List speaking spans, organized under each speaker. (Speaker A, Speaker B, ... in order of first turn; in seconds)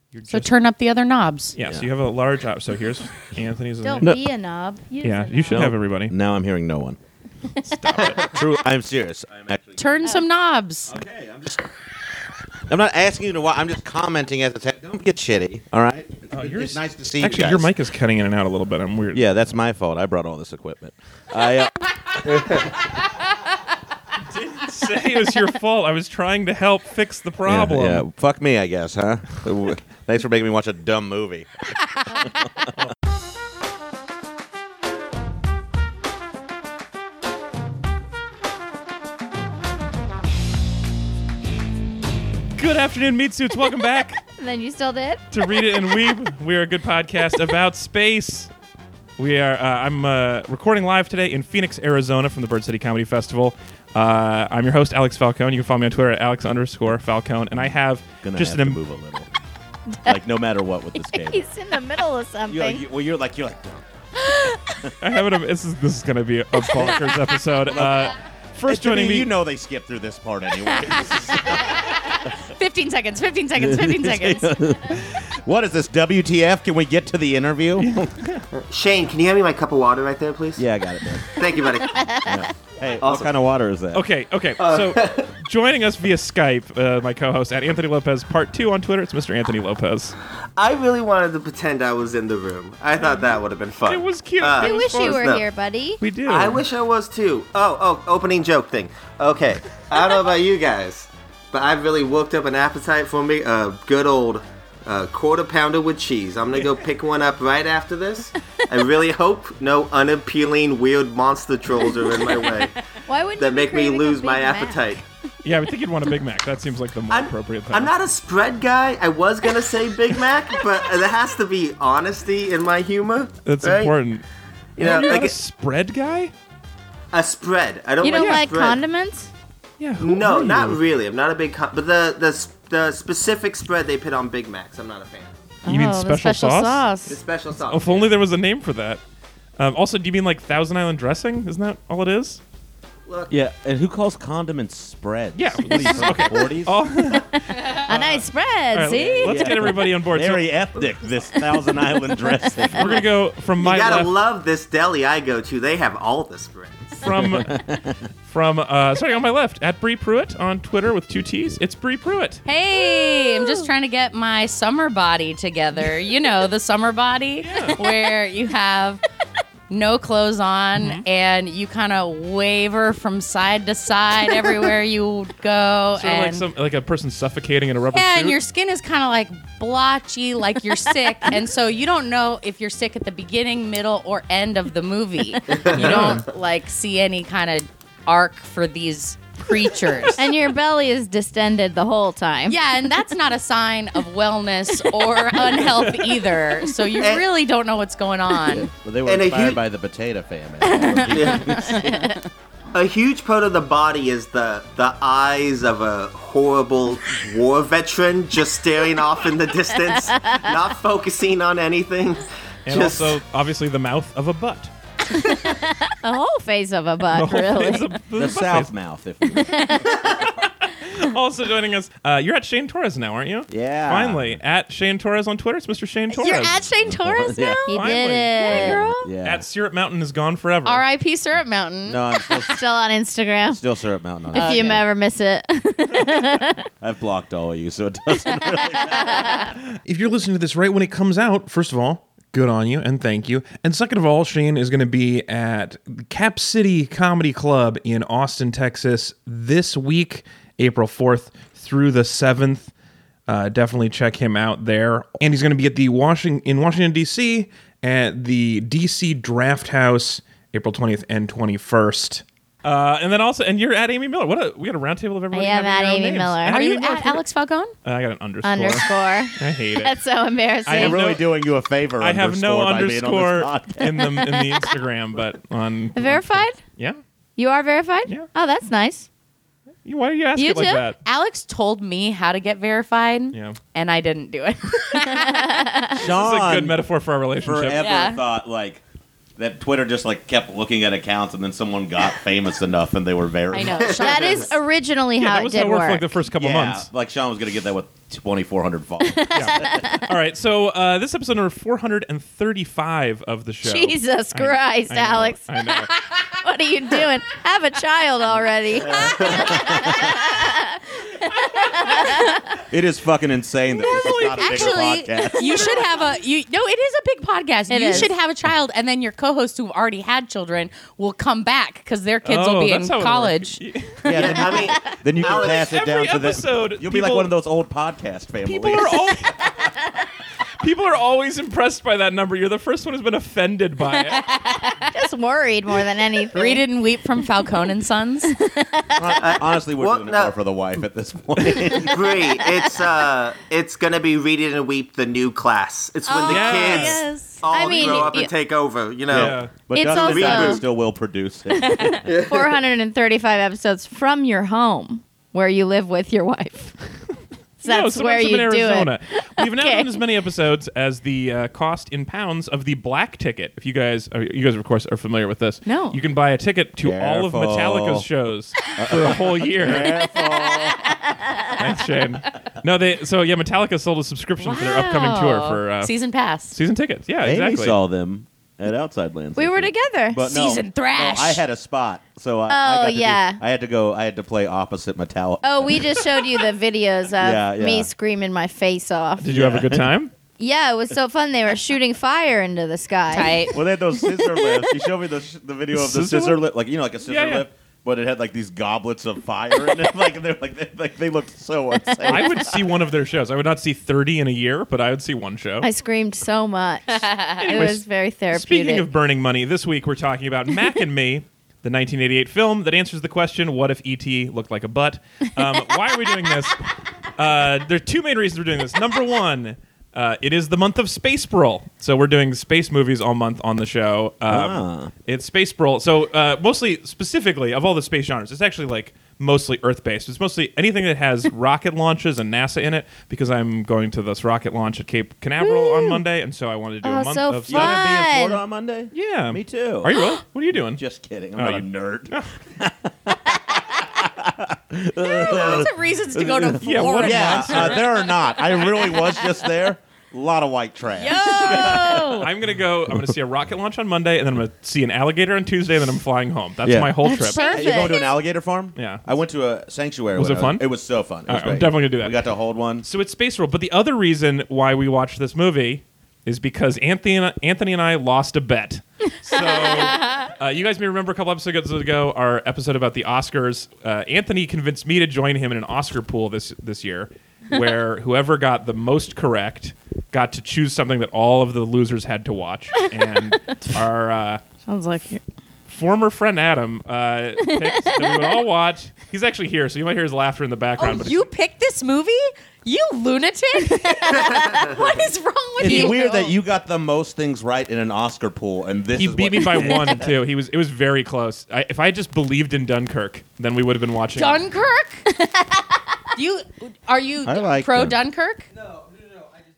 Speaker A: 0.1-0.5, 1.6-4.2, 5.0-6.1, 7.6-8.3, 16.3-19.2, 24.3-28.0, 42.5-44.2, 45.3-48.5, 49.2-58.8, 65.0-69.3, 77.8-78.4, 83.9-90.2, 93.0-93.3, 93.8-95.3, 96.0-96.6, 115.4-117.9, 123.4-124.2, 124.8-126.3, 128.2-128.4, 129.8-130.8, 135.7-136.8, 137.6-139.0, 139.6-142.4, 145.3-147.3, 147.9-150.5, 152.7-154.1, 157.0-157.6, 158.2-162.4, 167.4-167.8, 170.8-171.0, 175.9-178.4, 185.7-186.2, 195.3-196.3, 212.7-214.7, 217.1-218.7, 220.1-226.6, 227.7-230.8, 239.8-252.7, 253.3-267.2, 267.8-270.0, 270.6-271.2, 272.0-277.0, 279.8-281.0, 283.3-283.6, 286.0-287.8, 295.2-296.9, 299.3-305.9, 313.9-314.8, 322.2-324.7, 325.2-327.3, 328.4-329.5, 330.6-334.3, 346.3-347.0, 347.7-348.1, 349.1-349.5, 357.6-370.0, 371.5-375.9, 376.5-377.8, 389.2-390.1, 395.7-396.4, 397.0-397.4, 402.0-405.7, 407.4-416.6, 417.1-437.8, 438.9-440.8, 441.4-442.3, 446.6-448.6, 451.5-457.4, 458.8-459.0, 460.1-460.7, 461.3-462.3, 462.8-484.4, 485.7-491.3, 499.0-504.4
Speaker B: 0.3-1.5, 9.8-10.9, 66.8-67.1, 70.7-74.5, 162.4-169.0, 169.7-176.4, 177.9-190.2, 192.5-198.7, 226.1-227.7, 230.6-232.4, 234.3-234.8, 266.5-267.7, 281.0-285.6, 287.8-288.2, 293.5-294.6, 313.9-323.6, 334.1-334.7, 336.3-338.4, 365.6-366.0, 374.4-376.6, 380.2-381.4, 393.1-393.6, 407.0-407.4, 445.0-448.9, 451.0-452.2, 457.2-457.9, 490.8-496.4, 504.1-505.1, 506.1-508.5
Speaker C: 3.8-5.7, 7.6-8.2, 44.4-45.6, 60.9-62.8, 81.8-82.5, 94.6-96.0, 113.0-115.0, 128.0-129.3, 135.6-137.2, 145.7-146.5, 147.1-149.7, 151.4-153.0, 162.7-163.7, 190.2-192.6, 200.8-201.9, 209.9-210.6, 215.2-217.9, 219.3-220.0, 227.7-229.1, 232.4-233.6, 234.3-236.6, 265.3-266.6, 268.4-271.0, 274.1-274.7, 275.9-276.6, 277.4-279.1, 280.3-280.9, 284.9-286.0, 293.9-296.1, 299.0-300.1, 303.6-305.7, 306.2-312.4, 315.4-315.8, 317.7-318.1, 324.6-324.8, 334.9-336.6, 338.2-339.2, 346.1-348.3, 349.7-350.6, 351.5-356.9, 357.6-360.0, 370.0-371.5, 379.4-380.3, 382.5-383.4, 385.4-389.3, 390.4-394.7, 405.6-408.9, 435.4-436.0, 436.8-438.4, 451.1-452.1, 457.0-458.1, 484.7-485.2, 487.4-488.4, 493.6-494.8, 505.1-505.7
Speaker D: 5.5-7.0, 8.2-10.2, 10.8-11.6, 12.7-17.7, 19.1-21.7, 22.2-22.6, 27.4-31.5, 57.6-59.3, 60.0-61.4, 62.5-63.8, 67.7-68.1, 68.7-71.8, 73.5-78.1, 80.6-81.3, 82.2-84.0, 143.3-146.8, 149.2-153.0, 157.1-158.0, 198.5-202.2, 218.1-220.2, 223.5-224.4, 226.7-229.4, 231.8-232.6, 233.5-234.8, 236.8-239.3, 270.7-273.9, 285.9-286.8, 287.4-288.8, 289.4-294.2, 296.4-299.8, 309.5-309.9, 312.7-315.8, 324.0-329.3, 338.9-342.2, 349.1-352.1, 366.8-368.1, 368.7-371.0, 377.2-386.1, 387.2-387.9, 389.3-389.8, 393.5-402.6, 424.3-424.9, 437.5-439.9, 440.5-452.2, 456.6-462.9, 495.6-500.1, 507.2-508.0
Speaker E: 78.6-80.6, 81.3-82.2, 83.0-83.3, 84.6-85.3, 90.6-95.4, 96.2-112.7, 113.4-115.0, 117.1-124.0, 124.8-125.3, 127.1-128.8, 130.0-135.3, 137.1-138.1, 143.1-143.3, 153.6-157.0, 185.7-186.2, 197.0-197.3, 199.0-199.6, 201.1-201.7, 202.7-213.2, 308.9-309.5, 324.1-325.8, 339.2-340.3, 341.8-349.4, 349.9-350.6, 352.0-352.6